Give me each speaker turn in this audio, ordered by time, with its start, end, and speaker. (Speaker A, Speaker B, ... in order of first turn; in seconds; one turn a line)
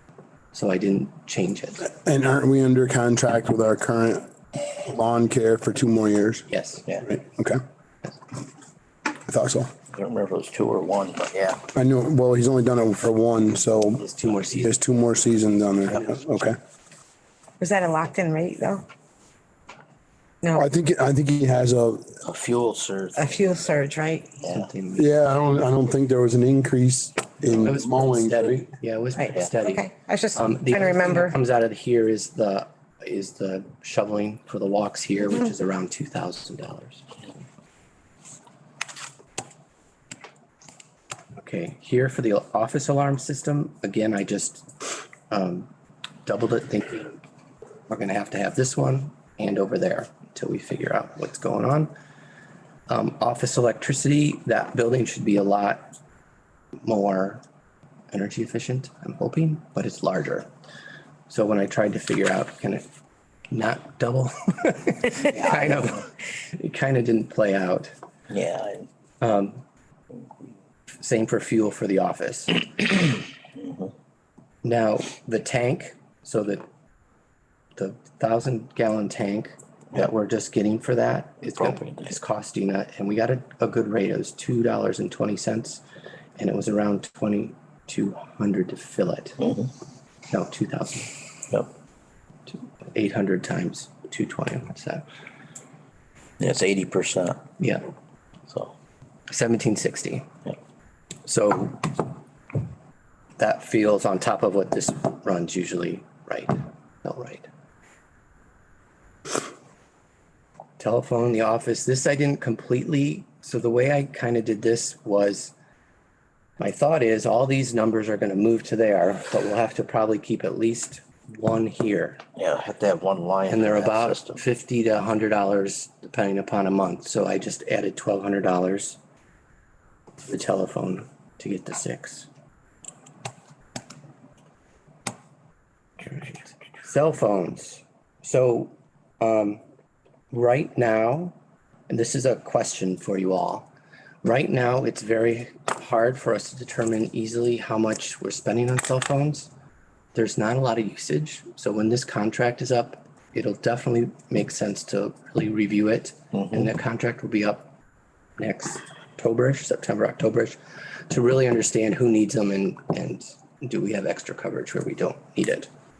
Speaker A: 0.5-1.9
Speaker B: 1.8-6.5
Speaker A: 6.5-6.9
Speaker B: 7.0-7.6
Speaker B: 9.3-9.7
Speaker C: 9.9-11.6
Speaker B: 11.7-14.0
Speaker A: 14.0-14.7
Speaker B: 14.6-16.6
Speaker D: 17.6-18.8
Speaker B: 20.6-22.1
Speaker C: 22.2-23.7
Speaker D: 23.1-24.3
Speaker C: 24.4-24.7
Speaker A: 24.4-25.3
Speaker B: 24.9-28.7
Speaker A: 27.6-37.1
Speaker D: 29.1-31.3
Speaker A: 41.4-44.7
Speaker A: 45.3-45.7
Speaker A: 46.2-47.2
Speaker A: 47.9-51.9
Speaker A: 52.9-56.0
Speaker A: 56.8-57.4
Speaker A: 58.1-60.5
Speaker A: 61.3-62.9
Speaker A: 63.5-67.9
Speaker C: 65.3-65.9
Speaker C: 68.3-68.9
Speaker A: 69.2-69.6
Speaker A: 71.0-72.7
Speaker C: 73.6-73.9
Speaker A: 74.6-76.7
Speaker A: 77.8-85.8
Speaker C: 81.5-82.1
Speaker A: 86.4-89.4
Speaker C: 89.4-89.7
Speaker A: 90.3-91.1
Speaker A: 92.5-95.0
Speaker C: 96.4-97.4
Speaker A: 97.6-97.8
Speaker A: 99.3-100.3
Speaker A: 101.2-102.0
Speaker A: 103.4-107.5
Speaker A: 110.8-115.5
Speaker A: 116.6-122.2
Speaker C: 122.3-124.4
Speaker A: 123.5-129.0
Speaker A: 130.2-132.3
Speaker A: 136.0-139.6
Speaker A: 140.3-141.3
Speaker A: 141.9-143.7
Speaker A: 144.2-149.5
Speaker A: 150.1-157.7
Speaker A: 158.4-160.6
Speaker A: 161.1-165.7